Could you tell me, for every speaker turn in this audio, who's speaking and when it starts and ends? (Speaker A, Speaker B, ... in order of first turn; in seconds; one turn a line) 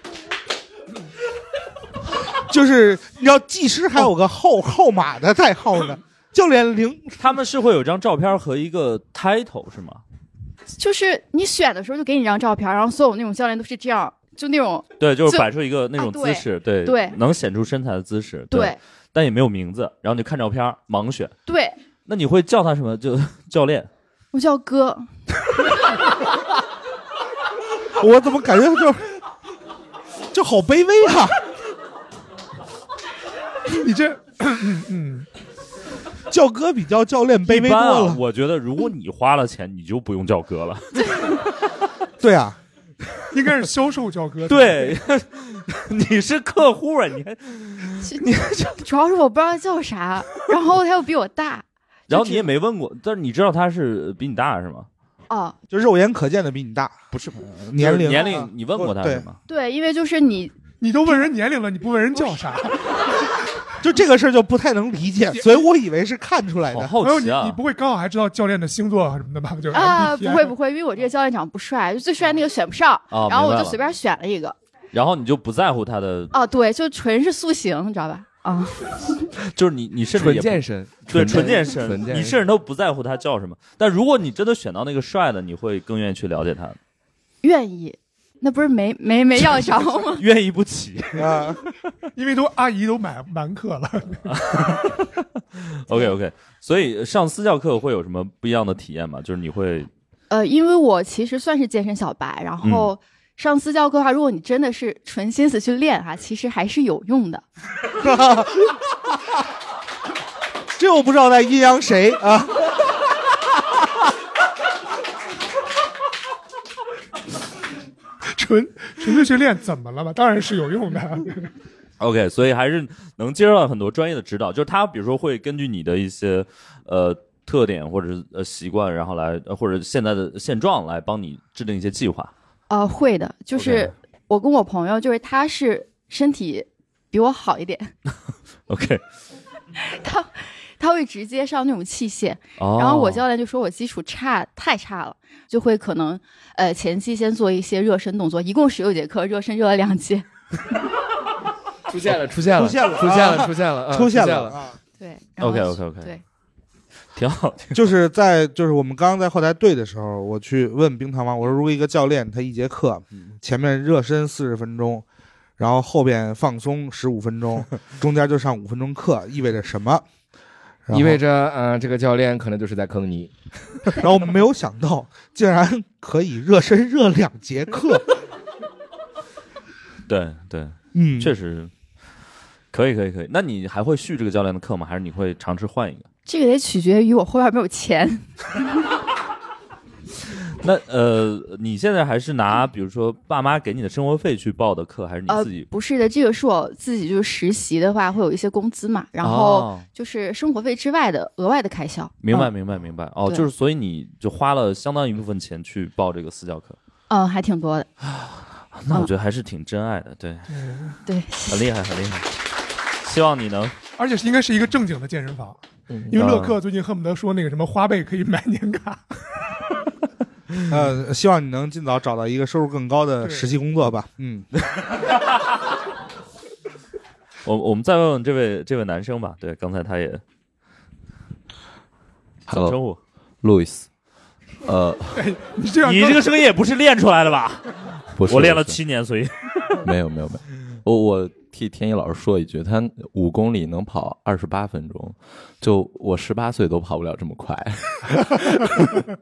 Speaker A: 2.3-7.1
Speaker B: 7.2-10.0
Speaker C: 10.8-17.2
Speaker B: 15.0-21.3
Speaker C: 18.5-18.8
Speaker C: 21.5-21.8
Speaker B: 22.1-23.9
Speaker C: 24.3-25.1
Speaker A: 28.0-29.0
Speaker A: 30.3-31.4
Speaker D: 33.7-35.3
Speaker A: 36.3-38.2
Speaker B: 37.4-41.4
Speaker A: 42.2-42.6
Speaker D: 43.3-45.0
Speaker B: 44.5-48.8
Speaker C: 48.8-52.5
Speaker B: 52.1-54.9
Speaker C: 55.3-55.6
Speaker A: 55.7-57.0
Speaker B: 57.1-59.4
Speaker A: 57.7-59.2
Speaker C: 59.5-60.5
Speaker D: 60.8-62.9
Speaker A: 63.8-66.9
Speaker B: 66.7-67.6
Speaker D: 67.0-70.5
Speaker C: 69.7-74.5
Speaker B: 73.1-73.8
Speaker B: 74.9-76.3
Speaker C: 76.3-78.8
Speaker B: 79.5-86.8
Speaker E: 80.1-82.4
Speaker C: 87.4-90.2
Speaker B: 89.4-91.5
Speaker A: 91.2-91.6
Speaker D: 92.2-94.5
Speaker B: 94.3-99.9
Speaker C: 100.3-107.4
Speaker B: 102.6-102.9
Speaker A: 108.0-108.8
Speaker A: 110.8-112.7
Speaker D: 118.3-121.5
Speaker B: 122.0-132.3
Speaker C: 132.7-137.9
Speaker B: 133.5-133.9
Speaker B: 138.7-139.0
Speaker C: 139.8-150.2
Speaker B: 142.6-143.2
Speaker E: 151.9-154.6
Speaker A: 152.5-154.8
Speaker C: 155.0-156.2
Speaker B: 155.4-156.1
Speaker B: 157.2-157.8
Speaker A: 157.7-165.0
Speaker A: 165.6-170.0
Speaker A: 170.8-171.2
Speaker E: 170.9-173.3
Speaker A: 173.9-178.0
Speaker B: 180.1-181.7
Speaker A: 180.9-181.3
Speaker B: 182.7-186.1
Speaker C: 186.3-188.3
Speaker B: 190.6-195.7
Speaker C: 195.3-202.5
Speaker B: 199.2-199.9
Speaker B: 202.2-206.8
Speaker C: 207.1-207.9
Speaker B: 208.0-210.5
Speaker D: 210.5-210.9
Speaker C: 211.1-211.7
Speaker B: 211.5-212.3
Speaker B: 213.0-213.7
Speaker D: 214.0-215.6
Speaker D: 216.1-219.2
Speaker B: 216.1-216.6
Speaker A: 220.7-224.5
Speaker D: 223.2-223.5
Speaker B: 227.4-230.2
Speaker B: 232.5-233.0
Speaker F: 232.5-232.8
Speaker F: 233.4-233.9
Speaker F: 234.6-235.2
Speaker D: 235.1-236.4
Speaker B: 235.8-239.8
Speaker F: 238.1-238.8
Speaker F: 239.8-248.8